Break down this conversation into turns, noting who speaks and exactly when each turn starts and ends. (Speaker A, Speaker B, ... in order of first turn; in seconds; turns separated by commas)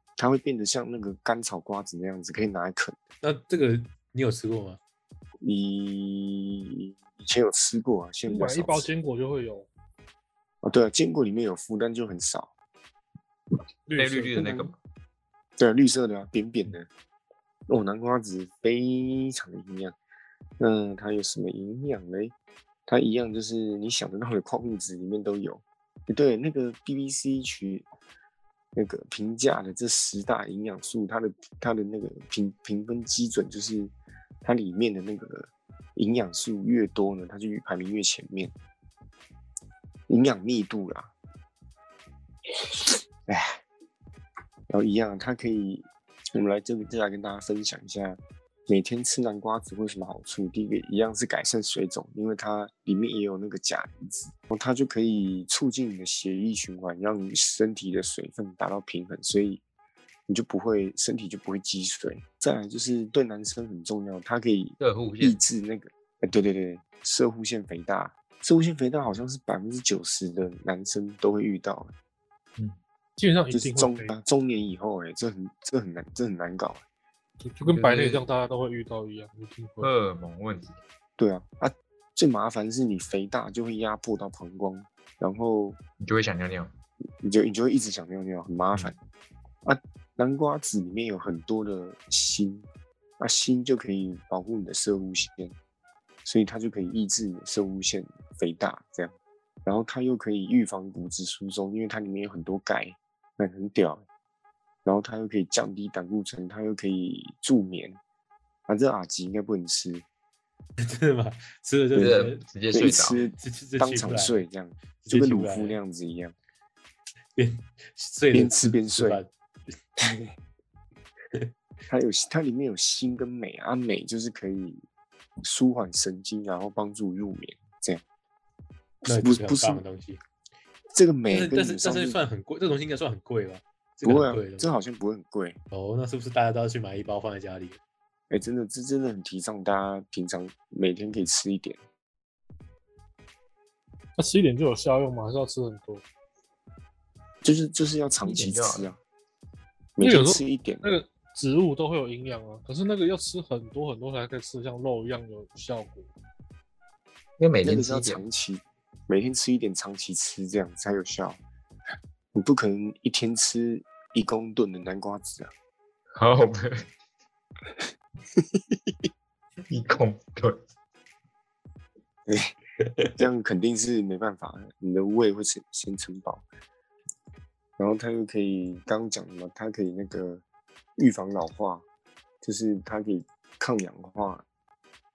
Speaker A: 0.2-3.0, Speaker B: 3.2-4.8, Speaker A: 5.4-8.9, Speaker C: 8.3-9.7, Speaker A: 10.6-12.5, Speaker C: 13.9-14.7, Speaker D: 13.9-14.8, Speaker A: 15.6-16.9, Speaker A: 17.7-19.9, Speaker A: 20.6-22.3, Speaker A: 22.9-27.9, Speaker A: 28.8-38.5, Speaker A: 40.1-41.1, Speaker A: 42.6-43.6, Speaker A: 44.7-59.6, Speaker A: 60.3-71.9, Speaker D: 64.8-65.4, Speaker C: 73.2-74.1, Speaker A: 73.5-76.8, Speaker C: 77.4-79.9, Speaker D: 77.6-78.2, Speaker D: 79.8-80.8, Speaker A: 81.2-85.8, Speaker D: 86.0-86.7, Speaker A: 87.2-88.9, Speaker A: 89.6-92.7, Speaker A: 93.2-95.5, Speaker A: 96.2-104.0, Speaker A: 104.8-108.0, Speaker A: 108.7-110.0, Speaker B: 110.8-112.4, Speaker D: 111.9-113.3, Speaker A: 112.7-116.3, Speaker B: 113.4-114.5, Speaker B: 115.0-115.8, Speaker B: 117.4-119.3, Speaker A: 118.3-119.2, Speaker A: 120.0-120.3, Speaker A: 121.9-124.8, Speaker A: 125.4-128.0, Speaker A: 129.0-129.8, Speaker B: 129.1-130.2, Speaker A: 130.9-132.2, Speaker B: 131.3-134.7, Speaker A: 134.0-135.6, Speaker B: 135.7-137.8, Speaker A: 138.3-141.8, Speaker C: 144.2-146.0, Speaker A: 147.4-149.0, Speaker D: 148.2-148.9, Speaker A: 150.0-150.9, Speaker C: 150.0-156.1, Speaker D: 157.4-158.2, Speaker A: 157.6-161.4, Speaker A: 162.3-165.5, Speaker D: 166.2-166.9, Speaker A: 168.6-168.9, Speaker D: 169.7-170.6, Speaker A: 172.3-172.5, Speaker A: 173.1-176.4, Speaker A: 177.8-180.4, Speaker A: 181.0-181.8, Speaker A: 182.4-184.4